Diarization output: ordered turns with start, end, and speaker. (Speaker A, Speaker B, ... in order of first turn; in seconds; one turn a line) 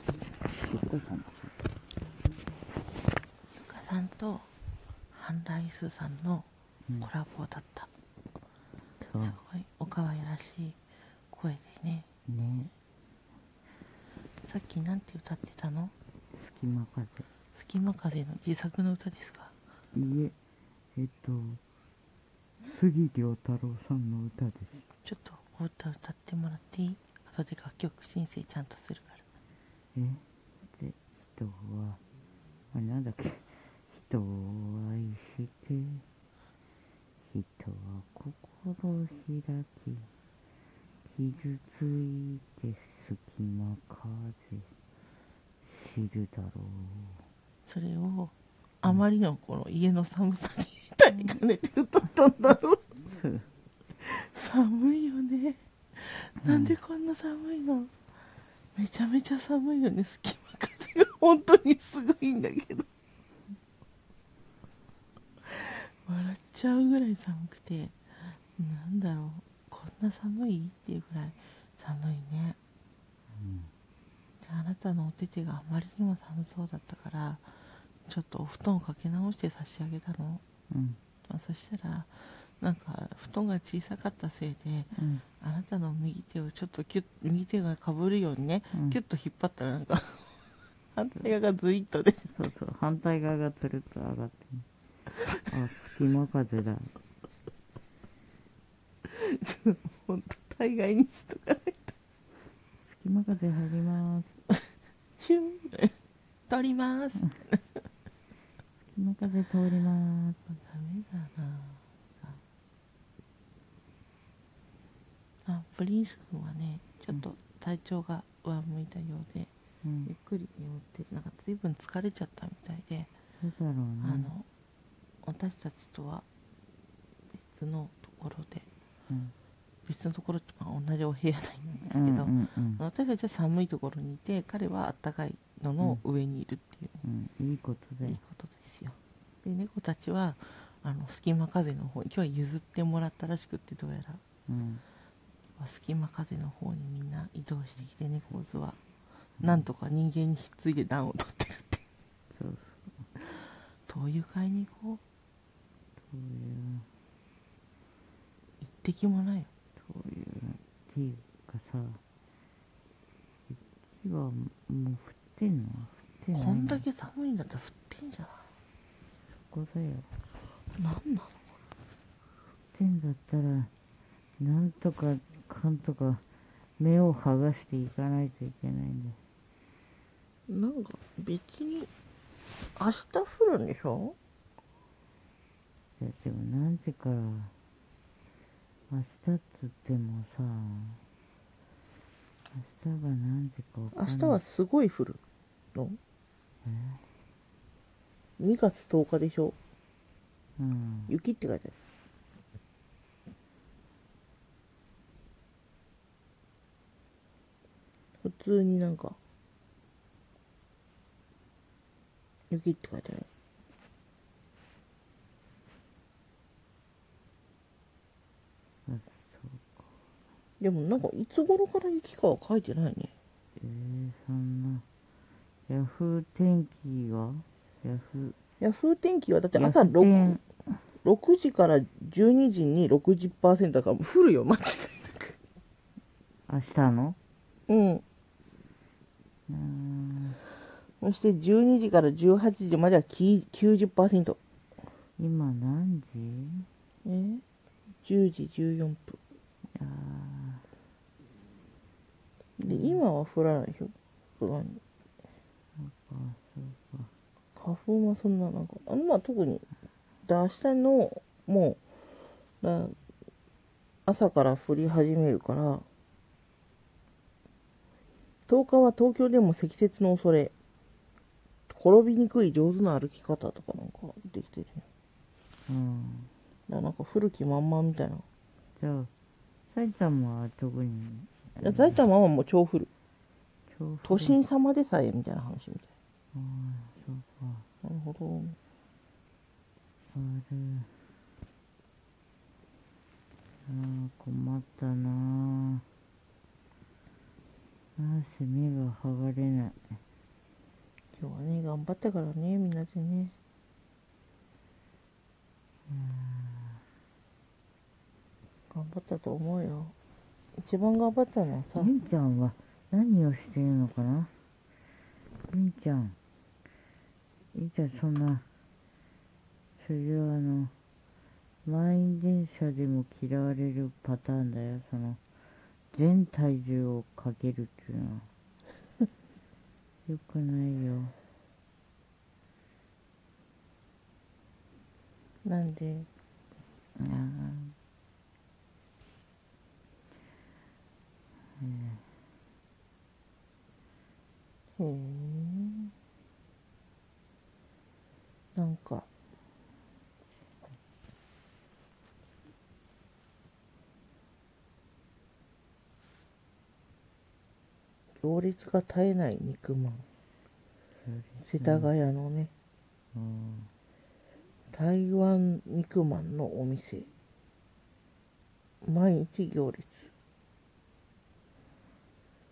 Speaker A: 0.5-1.5
Speaker B: 3.5-4.5
Speaker B: 5.1-6.5
Speaker B: 7.0-7.9
Speaker A: 9.0-9.4
Speaker B: 9.2-10.8
Speaker B: 11.3-12.1
Speaker A: 12.3-12.7
Speaker B: 14.4-15.9
Speaker A: 16.3-17.3
Speaker B: 17.5-19.5
Speaker A: 19.9-20.4
Speaker A: 20.9-21.6
Speaker A: 22.6-24.8
Speaker B: 25.1-29.2
Speaker A: 29.9-32.0
Speaker A: 32.7-36.0
Speaker A: 37.3-40.1
Speaker A: 41.1-44.7
Speaker A: 45.6-47.2
Speaker B: 47.6-52.9
Speaker A: 53.1-53.5
Speaker B: 54.0-57.9
Speaker A: 56.4-56.8
Speaker B: 58.8-62.9
Speaker B: 65.5-72.6
Speaker A: 73.3-73.7
Speaker B: 74.4-80.4
Speaker A: 80.7-81.0
Speaker B: 81.3-90.3
Speaker A: 85.0-85.2
Speaker A: 88.7-89.0
Speaker B: 91.0-92.3
Speaker A: 92.3-94.7
Speaker A: 95.4-96.9
Speaker B: 99.0-102.0
Speaker A: 102.9-104.3
Speaker B: 105.2-106.0
Speaker B: 106.5-107.6
Speaker A: 108.9-110.4
Speaker B: 110.5-112.4
Speaker B: 115.5-119.5
Speaker A: 119.8-120.1
Speaker B: 120.1-123.1
Speaker A: 123.4-124.3
Speaker B: 124.0-124.5
Speaker B: 125.2-126.3
Speaker B: 127.4-128.7
Speaker B: 129.9-137.0
Speaker A: 131.8-132.8
Speaker A: 137.0-138.2
Speaker B: 138.0-144.2
Speaker A: 144.5-144.8
Speaker B: 145.6-148.8
Speaker A: 149.4-149.7
Speaker B: 149.4-151.8
Speaker A: 152.3-152.9
Speaker B: 153.2-155.0
Speaker A: 156.0-156.9
Speaker B: 158.6-159.5
Speaker A: 159.8-162.0
Speaker A: 163.5-166.8
Speaker B: 166.3-168.5
Speaker A: 169.5-170.1
Speaker B: 170.8-171.4
Speaker A: 172.7-173.7
Speaker A: 174.4-176.2
Speaker A: 176.8-179.2
Speaker B: 180.5-181.9
Speaker B: 182.8-184.2
Speaker A: 186.0-187.5
Speaker A: 188.9-191.0
Speaker A: 192.5-194.4
Speaker B: 193.9-195.2
Speaker A: 196.6-197.0
Speaker B: 198.4-199.6
Speaker A: 200.6-201.1
Speaker B: 201.1-201.7
Speaker B: 208.2-209.2
Speaker B: 212.5-213.3
Speaker A: 218.9-219.8
Speaker B: 220.6-223.1
Speaker A: 223.6-224.8
Speaker A: 225.7-228.4
Speaker B: 228.6-230.4
Speaker A: 229.6-230.7
Speaker B: 231.0-235.3
Speaker A: 236.5-237.2
Speaker B: 237.7-238.0
Speaker A: 239.5-240.4
Speaker B: 241.0-244.4
Speaker A: 245.2-246.7
Speaker B: 247.1-247.4
Speaker B: 248.0-249.2
Speaker A: 249.8-250.7
Speaker B: 252.6-254.8
Speaker A: 252.7-253.0
Speaker A: 255.8-257.1
Speaker B: 257.6-259.6
Speaker B: 260.2-261.8
Speaker B: 262.6-263.0
Speaker B: 264.1-265.9
Speaker B: 268.5-270.5
Speaker B: 271.7-274.9
Speaker A: 275.7-276.3
Speaker B: 276.7-278.2
Speaker A: 278.8-279.1
Speaker A: 279.7-282.0
Speaker B: 281.6-282.9
Speaker A: 283.7-284.4
Speaker B: 284.0-285.9
Speaker A: 286.3-287.7
Speaker B: 287.8-288.6
Speaker A: 290.1-290.9
Speaker A: 293.7-295.9
Speaker A: 298.0-300.0
Speaker B: 301.2-303.3
Speaker A: 305.9-306.8
Speaker B: 308.7-309.9
Speaker B: 310.6-311.9
Speaker A: 311.8-314.3
Speaker A: 315.5-316.2
Speaker A: 317.5-318.5
Speaker A: 319.8-320.7
Speaker A: 321.6-325.2
Speaker A: 325.9-328.3
Speaker A: 330.1-331.1
Speaker B: 335.4-336.1
Speaker A: 337.0-337.8
Speaker A: 341.6-342.0
Speaker B: 344.8-345.9
Speaker B: 348.6-349.1
Speaker B: 358.2-360.1
Speaker A: 361.0-361.9
Speaker B: 361.4-362.5
Speaker A: 363.1-363.7
Speaker B: 364.7-367.1
Speaker B: 368.8-370.1